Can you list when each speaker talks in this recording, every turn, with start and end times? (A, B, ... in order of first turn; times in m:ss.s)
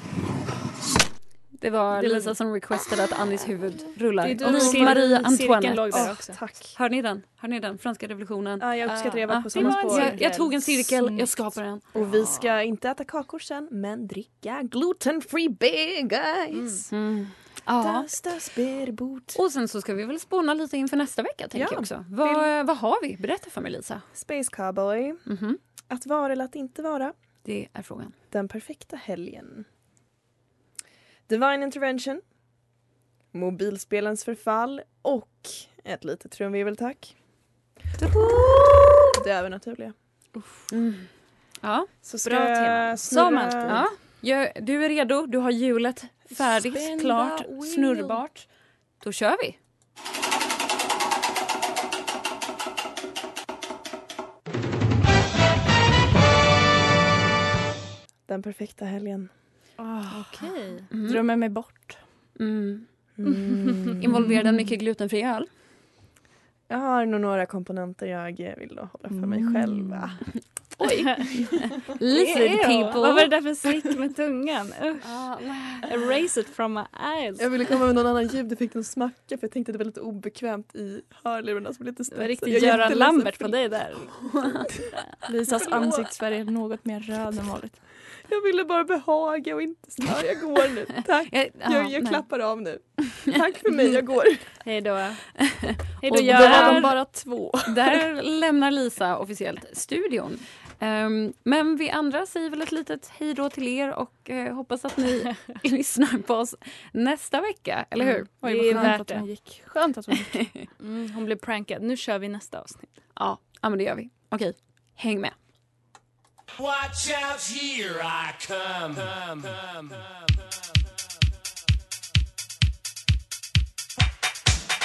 0:01.6-0:11.8 A
0:01.9-0:02.3 B
0:04.2-0:06.8 C
0:04.4-0:06.4 B
0:08.6-0:10.5 C
0:08.8-0:10.3 B
0:10.6-0:11.6 D
0:11.9-0:16.9 C
0:12.0-0:12.5 B
0:16.5-0:16.8 B
0:16.9-0:18.5 A
0:17.8-0:19.4 C
0:19.3-0:24.0 A
0:21.5-0:22.5 C
0:24.1-0:25.3 C
0:25.2-0:25.6 A
0:25.9-0:27.1 C
0:27.4-0:28.1 A
0:28.3-0:29.7 C
0:31.3-0:32.2 C
0:33.3-0:37.6 C
0:38.0-0:39.1 A
0:39.2-0:40.5 C
0:40.7-0:41.9 A
0:42.0-0:43.8 C
0:42.2-0:43.9 B
0:43.7-0:49.6 A
0:46.3-0:48.2 D
0:58.2-1:00.3 C
1:00.1-1:00.9 B
1:00.9-1:01.8 A
1:01.0-1:02.0 D
1:02.4-1:03.0 A
1:03.2-1:04.3 C
1:04.0-1:05.5 A
1:06.7-1:10.2 C
1:09.1-1:10.1 D
1:10.8-1:17.5 B
1:12.0-1:13.3 A
1:15.0-1:15.9 A
1:17.4-1:24.5 C
1:22.1-1:24.4 B
1:25.2-1:27.8 D
1:25.5-1:26.1 C
1:28.0-1:34.6 C
1:31.3-1:32.6 A
1:34.6-1:37.0 B
1:36.0-1:37.1 A
1:36.1-1:37.6 D
1:37.6-1:49.0 A
1:48.0-1:49.3 B
1:48.4-1:50.7 D
1:50.4-1:50.6 A
1:50.8-1:53.0 B
1:53.1-1:55.3 A
1:56.6-2:00.2 E